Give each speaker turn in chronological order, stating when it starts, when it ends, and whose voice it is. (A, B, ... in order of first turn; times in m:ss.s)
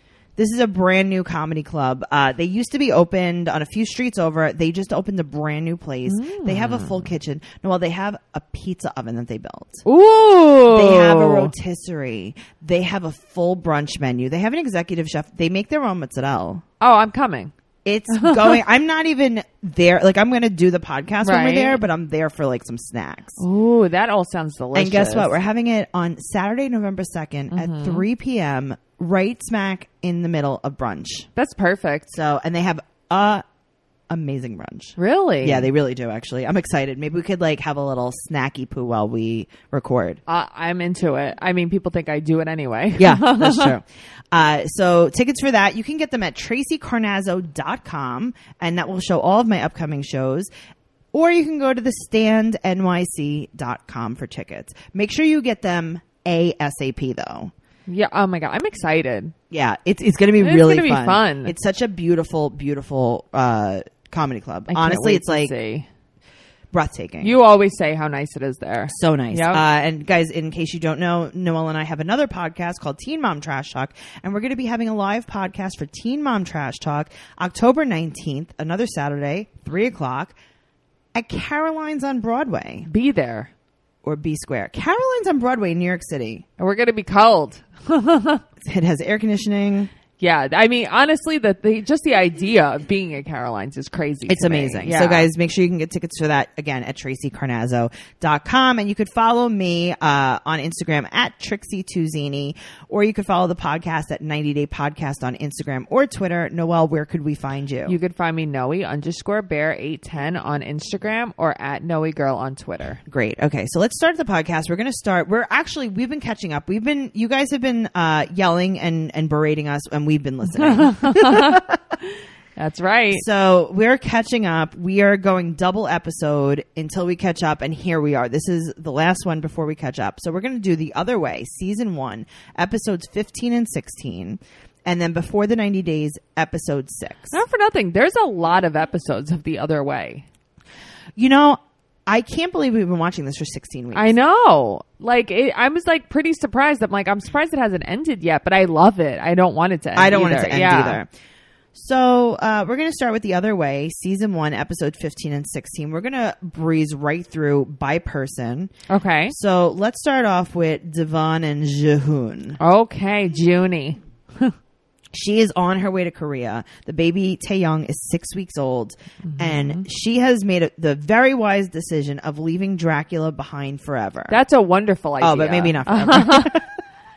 0:00.4-0:09.8 A
0:06.1-0:07.1 B
0:09.8-0:11.5 B
0:10.7-0:16.6 A
0:16.8-0:17.5 B
0:17.8-0:23.4 A
0:18.1-0:18.6 B
0:21.2-0:21.8 B
0:23.4-0:25.3 B
0:24.7-0:31.3 A
0:27.5-0:28.0 B
0:31.4-0:32.1 B
0:32.1-0:33.4 A
0:34.1-0:40.2 A
0:35.0-0:35.7 B
0:40.3-0:43.7 B
0:43.0-0:50.5 A
0:51.1-0:57.5 A
0:57.9-0:59.3 B
0:59.5-1:05.5 A
1:00.4-1:01.5 B
1:04.7-1:05.9 B
1:06.7-1:07.3 A
1:07.2-1:09.6 B
1:08.9-1:20.3 A
1:21.1-1:22.9 A
1:22.8-1:23.5 B
1:24.0-1:26.4 A
1:26.6-1:28.4 B
1:28.6-1:29.9 A
1:30.2-1:35.3 B
1:34.3-1:48.0 A
1:47.9-1:53.0 B
1:53.1-2:02.0 A
2:00.6-2:01.6 B
2:02.6-2:03.2 B
2:03.1-2:17.4 A
2:17.3-2:20.2 B
2:21.2-2:24.1 A
2:23.9-2:31.0 B
2:30.0-2:31.1 A
2:31.7-2:38.7 A
2:38.9-2:39.3 B
2:39.3-2:42.6 A
2:42.6-2:44.5 B
2:45.1-2:54.4 A
2:49.3-2:49.8 B
2:54.3-2:56.6 B
2:55.2-2:56.7 A